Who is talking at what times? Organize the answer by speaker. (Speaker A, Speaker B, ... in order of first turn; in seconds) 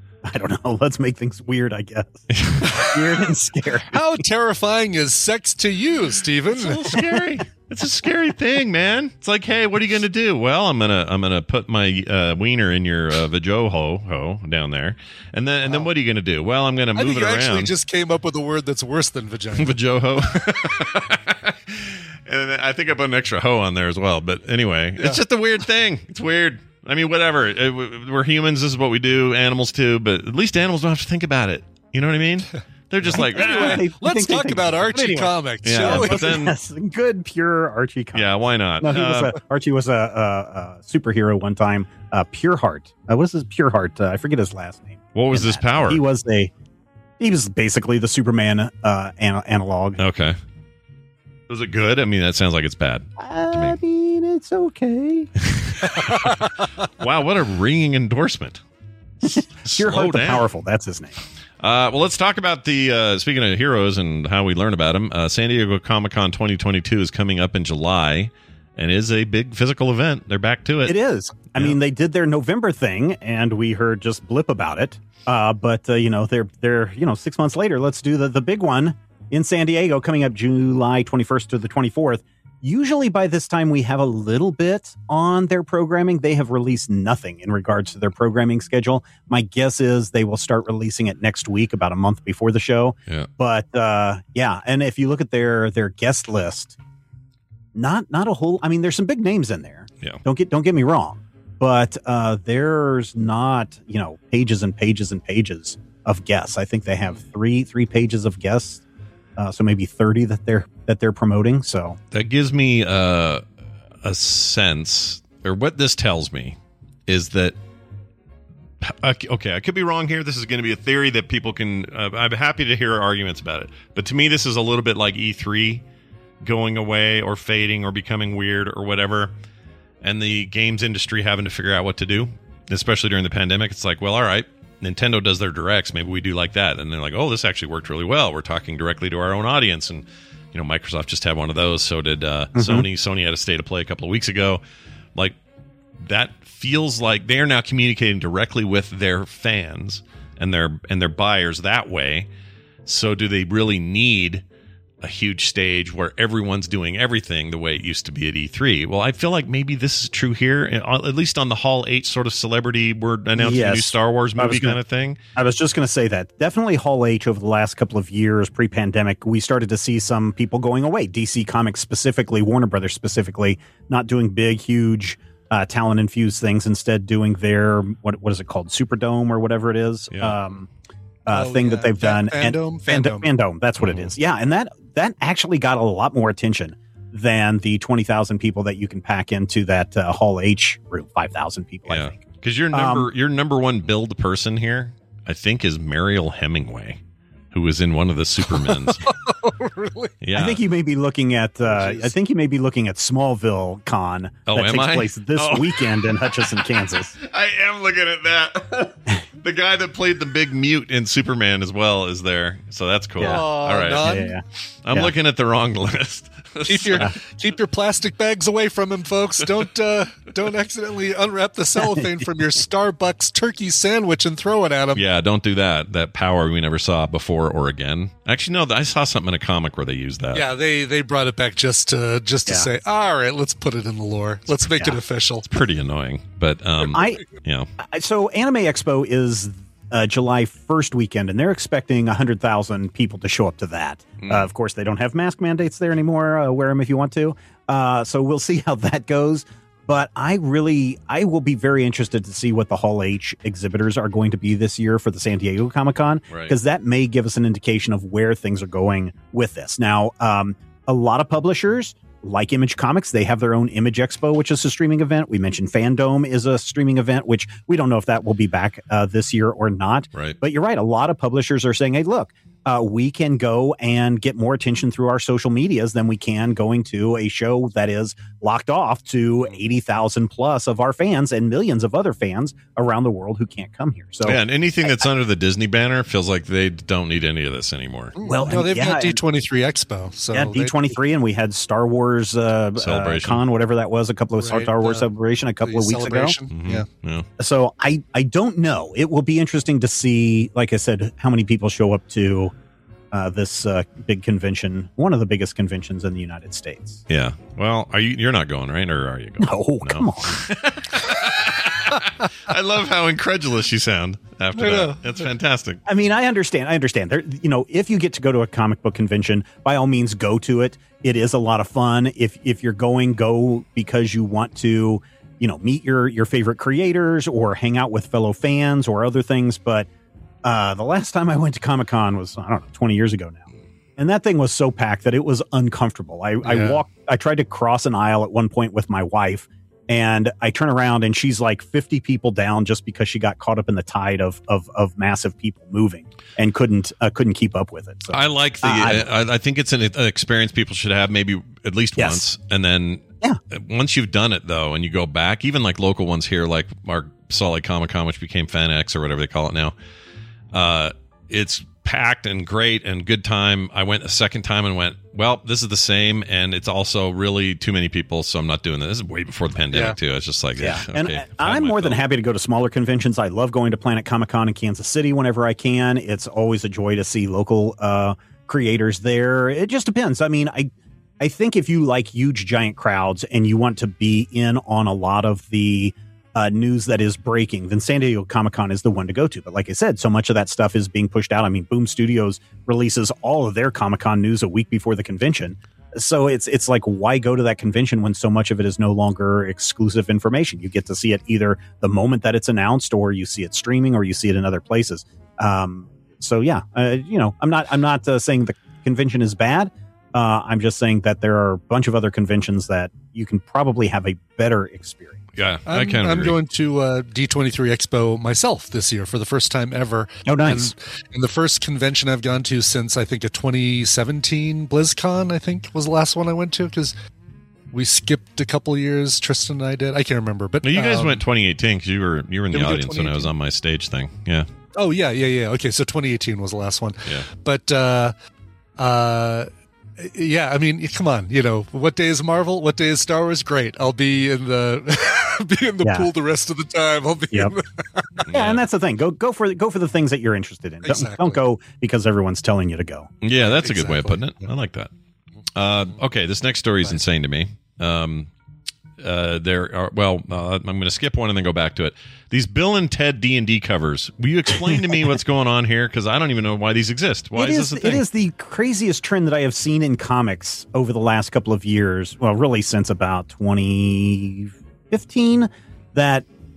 Speaker A: 0.2-4.0, 33.1-46.5, 47.2-50.0, 53.2-55.3, 59.2-61.2, 70.9-96.8, 97.8-108.8, 109.4-112.0, 142.6-142.9, 163.4-164.8, 165.4-180.7, 181.3-193.1, 200.3-207.1, 213.2-213.5, 214.0-215.1, 221.8-222.2, 234.6-235.0, 236.9-237.2, 237.8-285.1, 288.2-289.2, 290.3-296.4, 297.4-302.5, 303.1-307.0, 309.4-310.5, 315.9-329.9, 330.4-333.4, 334.0-349.1, 352.0-352.3, 370.6-415.3, 420.3-420.7, 445.8-446.1, 448.3-453.1, 467.4-476.2
Speaker B: 2.3-2.6, 6.5-17.7, 19.6-33.9, 35.6-36.5, 38.1-39.3, 45.1-46.0, 50.0-50.4, 51.5-53.8, 55.4-56.4, 57.0-58.6, 59.2-60.5, 61.6-71.0, 112.1-113.5, 114.0-117.6, 118.8-125.8, 126.4-129.3, 130.0-144.6, 146.0-152.3, 152.8-154.4, 155.0-165.2, 180.1-180.4, 183.8-184.1, 191.9-197.0, 197.5-199.1, 200.2-200.6, 204.5-206.1, 207.2-214.1, 214.8-217.1, 224.9-230.5, 235.4-237.7, 284.2-288.1, 292.8-293.4, 296.5-297.3, 307.1-315.8, 348.1-359.8, 360.5-372.0, 415.4-416.4, 430.6-434.5, 448.3-448.6, 453.2-454.9, 455.6-458.3, 459.0-468.0
Speaker C: 2.6-3.0, 3.9-7.0, 16.9-19.8, 20.3-20.9, 33.0-36.5, 56.1-56.4, 181.3-183.3, 198.5-200.2, 201.7-202.1, 213.2-214.4, 216.7-225.0, 230.3-235.5, 288.2-290.9, 294.4-295.1, 295.6-296.9, 314.6-315.0, 336.4-336.8, 369.7-370.0, 415.7-426.9, 427.7-431.2, 432.5-433.3, 434.8-438.1, 438.8-448.3, 450.8-451.4, 453.4-454.5